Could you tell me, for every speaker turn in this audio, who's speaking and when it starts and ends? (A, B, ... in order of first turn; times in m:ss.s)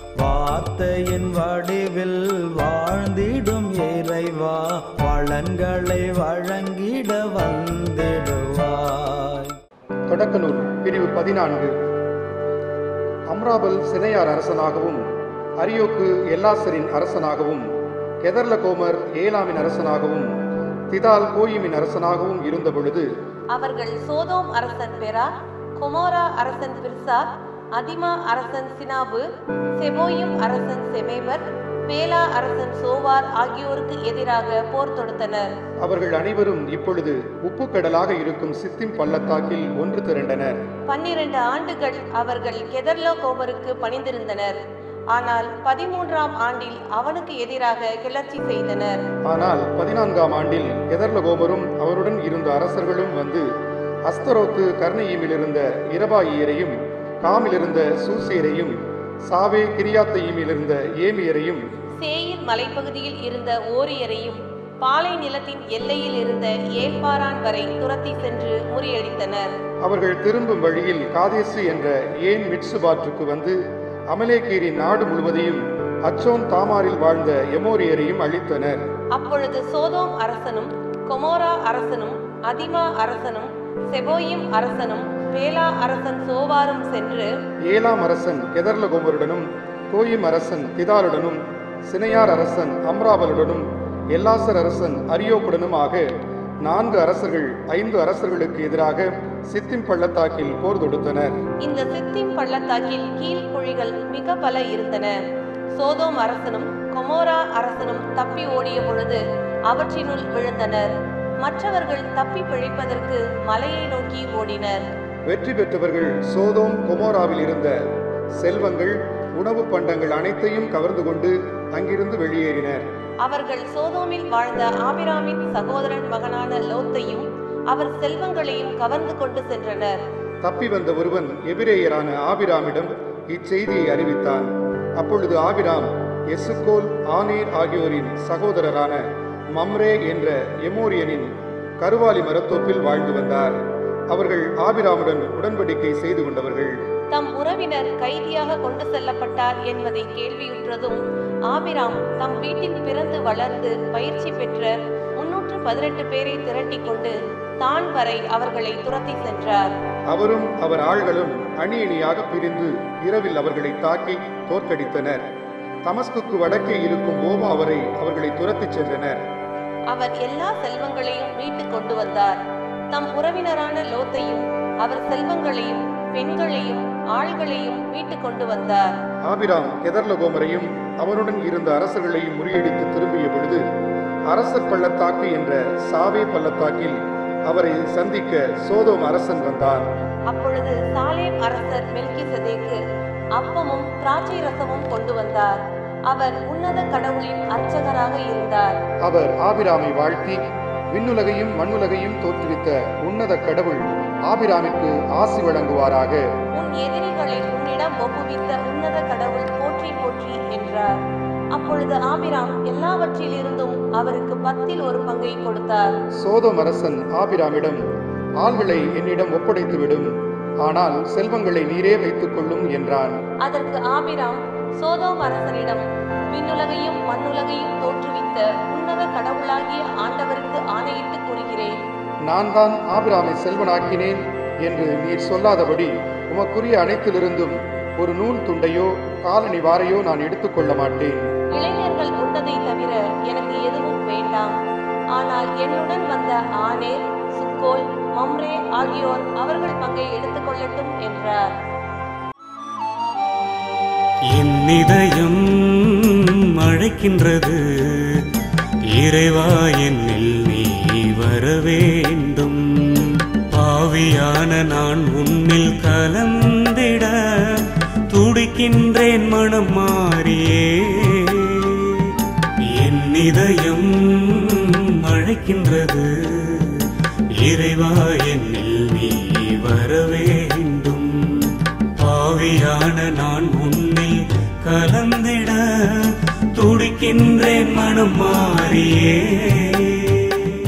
0:00.2-0:09.6 A
0:10.1-0:11.7 B
0:13.3-0:15.0 B
0:15.6-0:17.7 B
0:18.2-0:20.3 B
0:20.9-0:23.1 B
0:23.5-0:29.3 C
0:29.8-0:35.4 C
0:35.8-0:40.6 B
0:40.9-0:44.6 C
0:45.1-0:49.0 C
0:49.3-0:53.5 B
0:54.1-0:58.8 B
0:59.3-1:01.6 B
1:02.0-1:09.5 C
1:09.8-1:13.6 B
1:14.1-1:18.8 B
1:19.2-1:27.3 C
1:27.7-1:36.0 B
1:36.6-1:41.4 B
1:41.6-1:45.1 C
1:45.8-1:50.9 C
1:51.4-1:54.8 C
1:55.3-1:57.8 B
1:58.4-2:02.8 B
2:03.2-2:10.0 C
2:10.4-2:14.5 B
2:15.0-2:19.0 B
2:19.6-2:23.6 B
2:24.1-2:26.8 B
2:27.1-2:39.7 C
2:40.1-2:45.2 B
2:45.9-2:49.2 B
2:49.9-2:52.4 C
2:52.9-2:58.8 C
2:59.3-3:03.6 B
3:04.3-3:09.9 B
3:10.3-3:12.8 C
3:13.4-3:15.6 C
3:16.1-3:18.7 C
3:19.0-3:20.4 B
3:20.9-3:26.2 B
3:26.6-3:30.9 C
3:31.5-3:35.9 C
3:36.2-3:37.8 B
3:38.4-3:40.1 B
3:40.6-3:43.2 B
3:43.4-3:51.8 C
3:52.3-4:01.2 B
4:01.6-4:04.6 C
4:05.2-4:11.4 C
4:14.4-4:15.4 D
4:16.6-4:17.6 D
4:18.9-4:22.6 D
4:23.5-4:27.1 D
4:28.1-4:31.8 D
4:32.7-4:36.6 D
4:37.4-4:41.1 D
4:42.0-4:45.6 D
4:46.6-4:50.3 D